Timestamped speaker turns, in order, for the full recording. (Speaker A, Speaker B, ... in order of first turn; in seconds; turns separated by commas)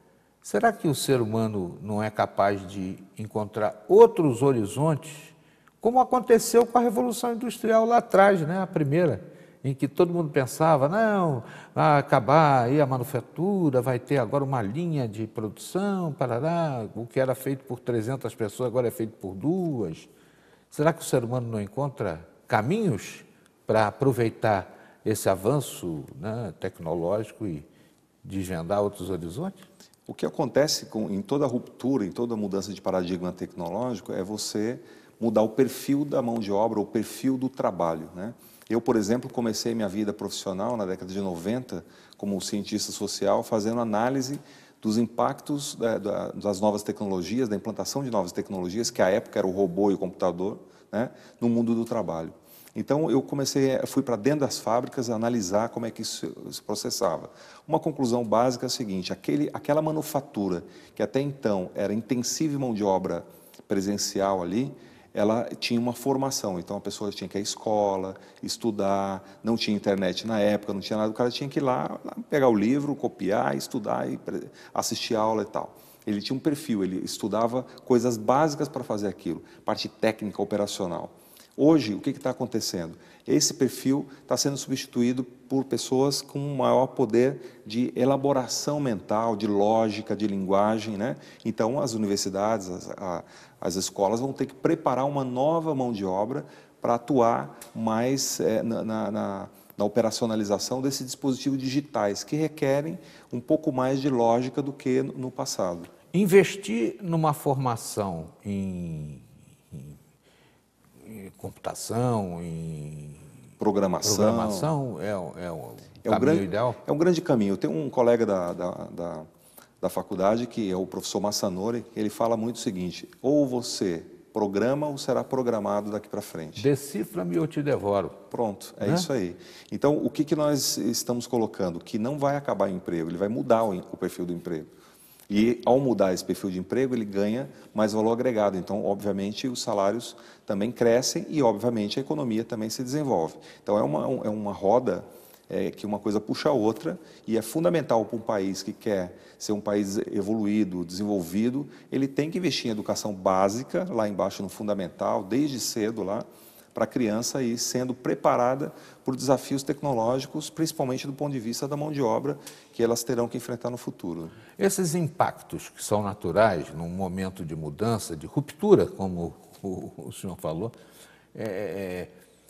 Speaker A: 0.4-20.1, Speaker A: 20.7-27.7, Speaker A: 28.2-29.6, Speaker B: 30.1-105.9, Speaker A: 106.1-109.9, Speaker A: 111.0-113.2, Speaker B: 113.6-114.7, Speaker A: 114.0-116.8, Speaker B: 116.0-119.3, Speaker B: 119.8-126.7, Speaker A: 126.6-128.2, Speaker B: 128.3-134.7, Speaker A: 128.8-129.1, Speaker B: 135.3-164.3, Speaker A: 164.6-170.8, Speaker A: 171.3-172.1